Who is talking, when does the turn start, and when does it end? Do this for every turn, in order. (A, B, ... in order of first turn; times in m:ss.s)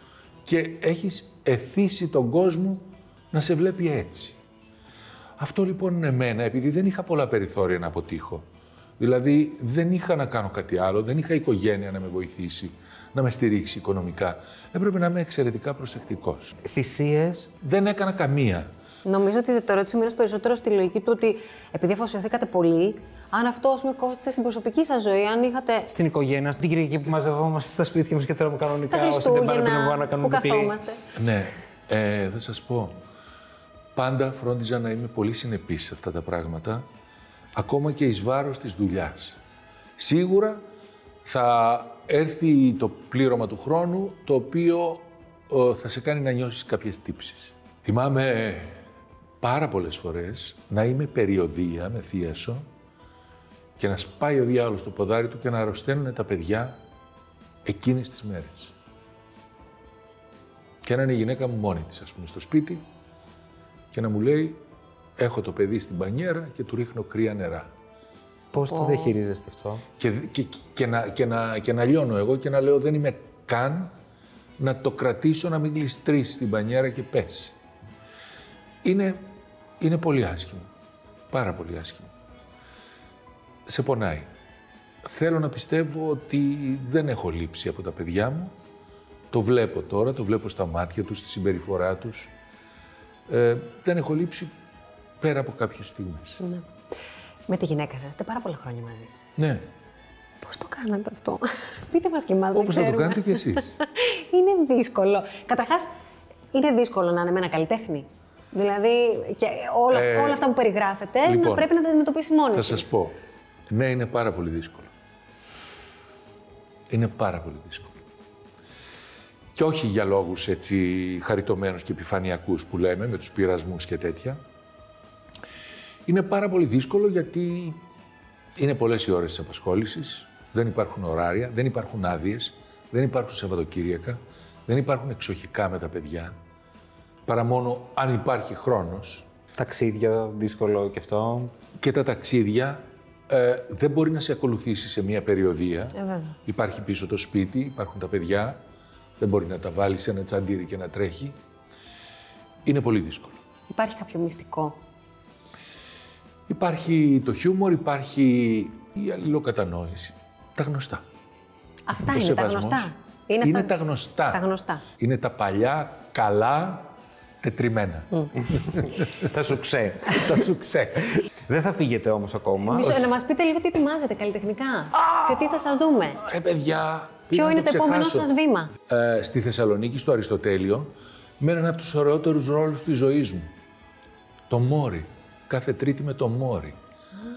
0:00.4-0:04.4 A
0:05.4-0:08.4 A
0:09.0-0:16.6 A
0:16.6-0:17.5 B
0:17.6-0:18.7 A
0:19.0-0:25.9 C
0:25.9-0:30.7 B
0:28.9-0:31.0 C
0:31.1-0:33.0 A
0:33.9-0:36.8 A
0:37.5-0:39.4 A
0:40.0-0:40.6 A
0:41.2-0:48.8 A
0:49.4-0:52.7 A
0:53.8-0:56.8 A
0:57.6-0:58.7 A
1:00.8-1:02.8 A
1:03.9-1:04.6 A
1:05.2-1:07.7 A
1:08.5-1:09.8 B
1:08.7-1:09.1 C
1:10.0-1:13.9 A
1:14.6-1:17.6 A
1:18.8-1:20.7 A
1:21.3-1:22.1 A
1:23.7-1:24.3 A
1:25.0-1:28.5 A
1:29.3-1:32.3 A
1:33.3-1:34.5 A
1:35.2-1:36.4 A
1:36.4-1:36.6 C
1:37.5-1:39.1 C
1:39.4-1:39.6 A
1:40.4-1:45.9 C
1:42.5-1:43.7 A
1:46.5-1:52.9 C
1:49.9-1:50.4 A
1:51.2-1:51.7 A
1:52.5-1:53.2 A
1:53.7-1:54.9 A
1:56.9-1:58.0 A
1:59.5-2:04.4 A
2:06.0-2:07.8 A
2:08.6-2:16.4 A
2:17.3-2:19.3 A
2:19.6-2:21.5 B
2:21.8-2:28.6 A
2:26.0-2:26.3 C
2:29.2-2:31.4 A
2:32.6-2:33.4 A
2:33.7-2:34.8 C
2:36.5-2:41.0 A
2:41.9-2:43.7 C
2:42.0-2:44.4 A
2:44.3-2:44.8 C
2:45.0-2:49.0 A
2:49.1-2:50.5 B
2:50.1-2:51.2 A
2:51.2-2:52.9 B
2:52.7-2:56.2 C
2:52.8-2:53.1 A
2:56.2-2:58.3 A
2:57.3-2:58.7 C
2:58.8-3:03.5 A
3:04.5-3:06.8 A